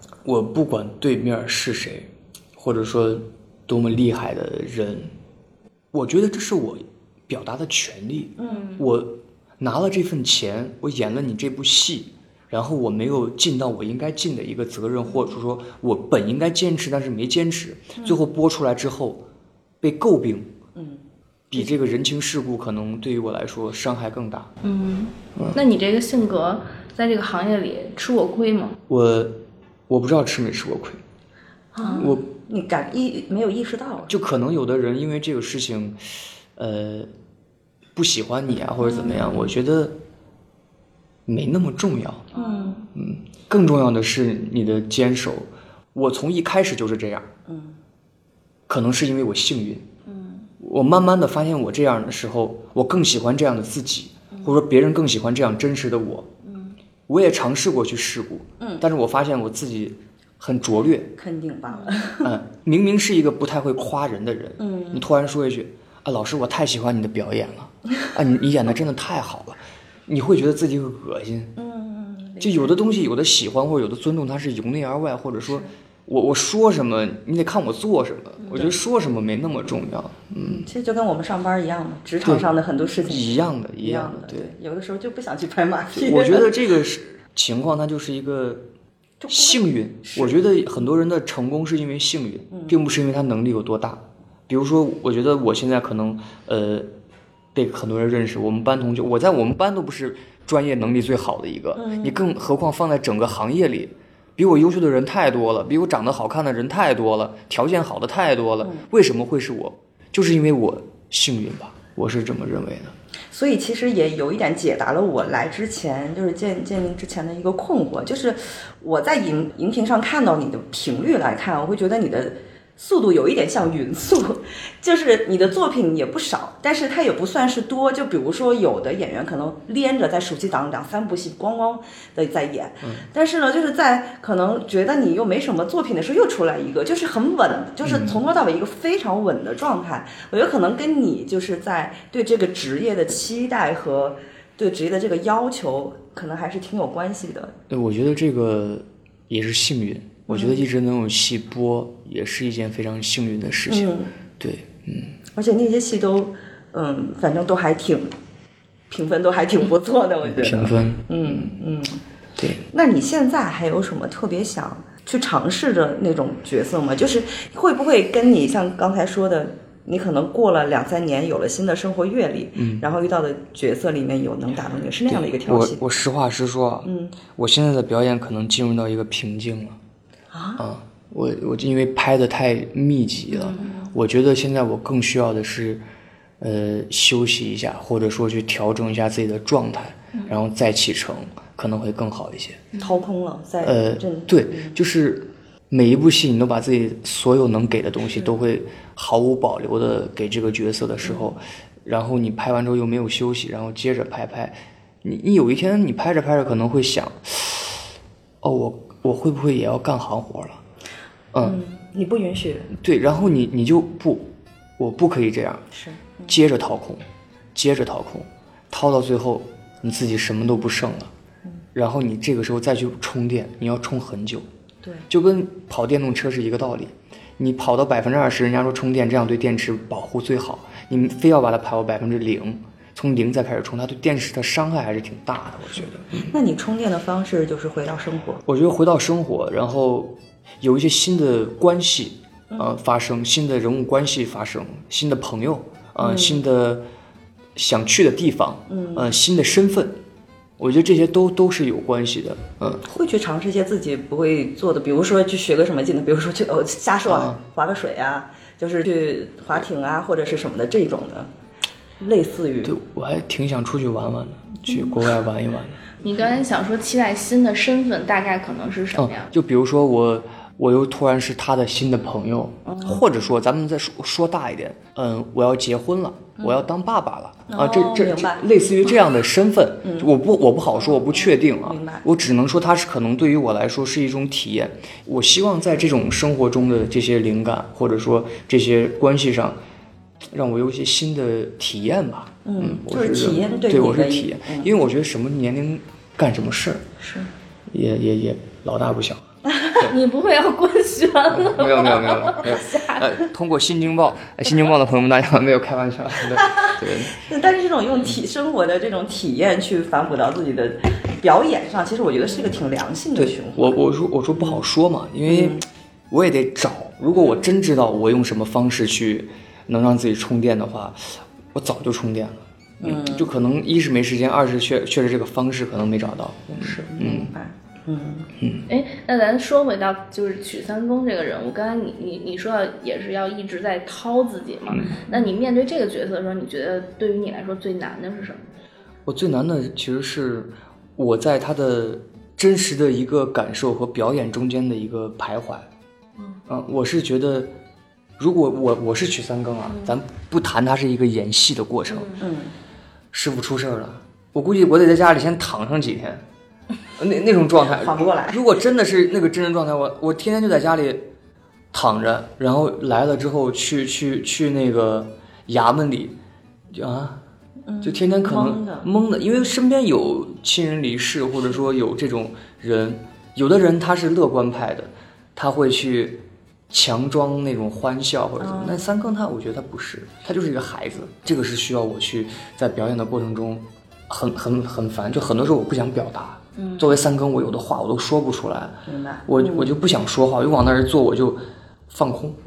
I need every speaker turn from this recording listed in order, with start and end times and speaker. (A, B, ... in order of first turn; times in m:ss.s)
0:00.2-0:05.1 A
0:05.9-0:19.2 A
0:08.4-0:08.7 B
0:08.4-0:08.8 C
0:19.8-0:20.5 A
0:20.8-0:21.0 B
0:21.5-0:24.5 A
0:24.6-0:28.8 C
0:28.9-0:29.4 A
0:29.9-0:31.0 A
0:31.8-0:34.2 B
0:31.8-0:32.1 C
0:32.0-0:32.3 A
0:34.1-0:36.0 A
0:36.6-0:37.1 A
0:38.0-0:40.0 A
0:38.9-0:39.4 C
0:41.3-0:42.3 A
0:42.3-0:42.8 C
0:42.3-0:42.8 B
0:43.0-0:47.3 A
0:47.5-0:47.8 B
0:48.7-0:49.8 A
0:50.1-0:50.5 C
0:50.6-0:56.3 A
0:56.4-0:56.8 C
0:57.1-1:01.1 A
0:58.6-0:58.8 B
1:01.2-1:02.4 B
1:01.8-1:02.0 C
1:02.2-1:11.5 A
1:04.6-1:05.1 B
1:11.6-1:12.7 B
1:12.4-1:20.7 A
1:20.4-1:26.5 B
1:22.2-1:22.5 A
1:23.0-1:24.5 A
1:25.9-1:28.6 A
1:29.2-1:30.4 B
1:29.3-1:36.9 A
1:32.5-1:32.8 B
1:37.6-1:52.9 A
1:41.8-1:42.2 B
1:53.3-2:27.6 B
2:12.8-2:13.1 A
2:17.8-2:18.2 A
2:27.7-2:35.2 A
2:30.3-2:30.6 B
2:33.7-2:34.1 B
2:35.3-2:38.1 B
2:38.9-2:42.0 B
2:40.2-2:41.5 A
2:42.4-2:42.6 A
2:42.7-2:55.9 B
2:52.6-2:52.8 A
2:55.1-2:59.8 A
2:56.8-2:57.2 B
3:00.3-3:00.6 B
3:00.6-3:05.8 A
3:03.4-3:03.8 C
3:03.6-3:03.8 B
3:06.4-3:12.6 A
3:12.7-3:13.0 C
3:12.8-3:14.8 B
3:13.6-3:27.9 A
3:28.4-3:30.6 A
3:31.3-3:31.6 A
3:31.4-3:32.7 B
3:32.7-3:35.6 A
3:35.7-3:36.4 B
3:36.3-3:41.1 A
3:41.7-3:44.5 A
3:45.1-3:56.3 A
3:56.1-3:58.4 B
3:58.4-4:06.8 A
4:06.0-4:06.4 B
4:07.6-4:10.0 A
4:08.7-4:09.1 B
4:10.6-4:12.8 A
4:12.8-4:21.3 B
4:17.1-4:17.4 A
4:22.0-4:22.8 B
4:22.6-4:25.8 A
4:26.0-4:29.4 C
4:29.0-4:49.6 A
4:32.7-4:33.0 C
4:37.5-4:38.5 B
4:39.8-4:40.1 B
4:41.6-4:42.1 B
4:50.3-4:56.9 A
4:52.4-4:54.7 B
4:57.0-4:57.3 B
4:57.7-4:59.3 A
4:59.5-4:59.8 B
4:59.8-5:03.2 C
5:01.3-5:07.2 A
5:06.3-5:13.8 B
5:13.2-5:27.3 A
5:14.3-5:14.6 B
5:15.3-5:15.6 B
5:22.8-5:23.3 B
5:26.6-5:28.3 B
5:28.4-5:28.7 A
5:28.7-5:38.4 C
5:34.7-5:35.0 A
5:39.1-5:45.7 A
5:46.5-5:47.5 A
5:48.2-5:52.2 A
5:51.9-5:52.2 C
5:52.2-5:52.6 B
5:53.1-5:56.2 A
5:57.0-6:01.1 A
5:57.7-5:58.6 B
6:01.7-6:06.2 A
6:06.7-6:07.2 A
6:07.7-6:08.9 B
6:07.8-6:32.4 A
6:18.4-6:18.9 B
6:28.9-6:29.8 B